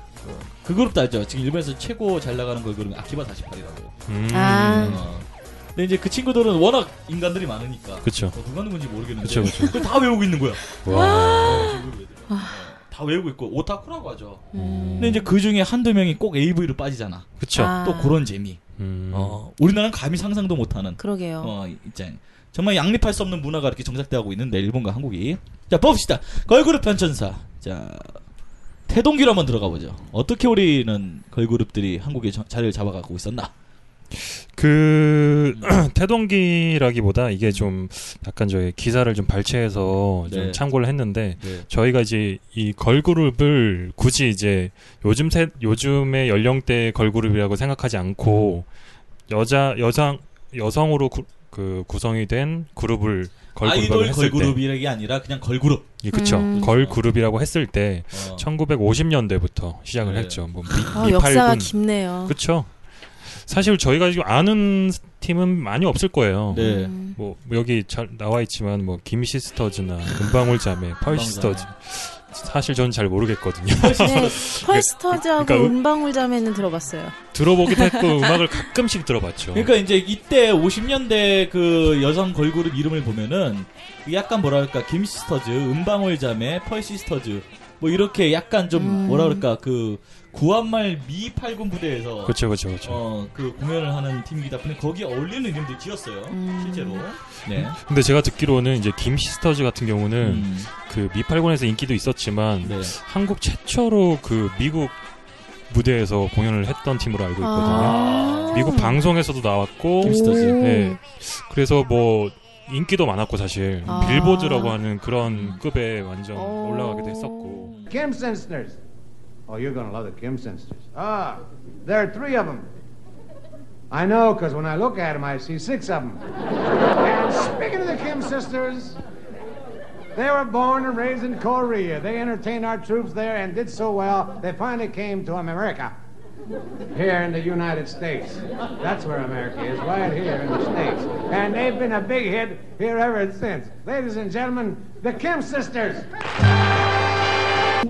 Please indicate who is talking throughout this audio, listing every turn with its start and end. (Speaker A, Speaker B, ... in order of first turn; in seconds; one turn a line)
Speaker A: 0.2-3.9
Speaker B: 4.1-5.0
Speaker C: 4.3-5.0
Speaker A: 4.7-14.5
Speaker B: 8.0-8.3
Speaker B: 9.2-9.8
Speaker C: 10.7-12.6
Speaker B: 10.8-11.7
Speaker B: 14.5-15.2
Speaker C: 14.5-15.3
Speaker A: 15.0-18.6
Speaker B: 17.4-17.7
Speaker C: 17.5-18.2
Speaker B: 18.8-19.4
Speaker A: 19.1-28.2
Speaker C: 21.0-21.5
Speaker A: 28.9-33.5
Speaker B: 34.1-48.7
Speaker A: 40.2-40.6
Speaker A: 41.4-41.7
Speaker A: 48.2-48.6
Speaker B: 49.3-54.6
Speaker A: 53.6-57.0
Speaker B: 56.0-62.7
Speaker C: 56.1-56.6
Speaker A: 58.1-58.5
Speaker A: 60.0-60.9
Speaker C: 60.9-62.3
Speaker B: 63.2-75.8
Speaker A: 66.5-66.9
Speaker C: 66.5-67.2
Speaker A: 71.1-71.7
Speaker A: 73.8-74.4
Speaker C: 74.0-77.2
Speaker B: 77.3-79.7
Speaker C: 77.7-78.4
Speaker A: 79.5-97.8
Speaker C: 88.7-89.5
Speaker B: 92.2-93.0
Speaker C: 96.3-97.0
Speaker B: 97.5-105.0
Speaker A: 100.2-100.7
Speaker A: 102.6-102.9
Speaker B: 105.7-117.7
Speaker C: 107.4-109.0
Speaker A: 107.7-108.7
Speaker A: 110.0-110.6
Speaker C: 110.0-111.0
Speaker C: 113.8-114.7
Speaker C: 116.3-117.7
Speaker D: 117.9-118.8
Speaker D: 119.5-122.7
Speaker D: 123.9-126.2
Speaker D: 127.0-129.0
Speaker D: 130.1-135.9
Speaker D: 136.9-146.1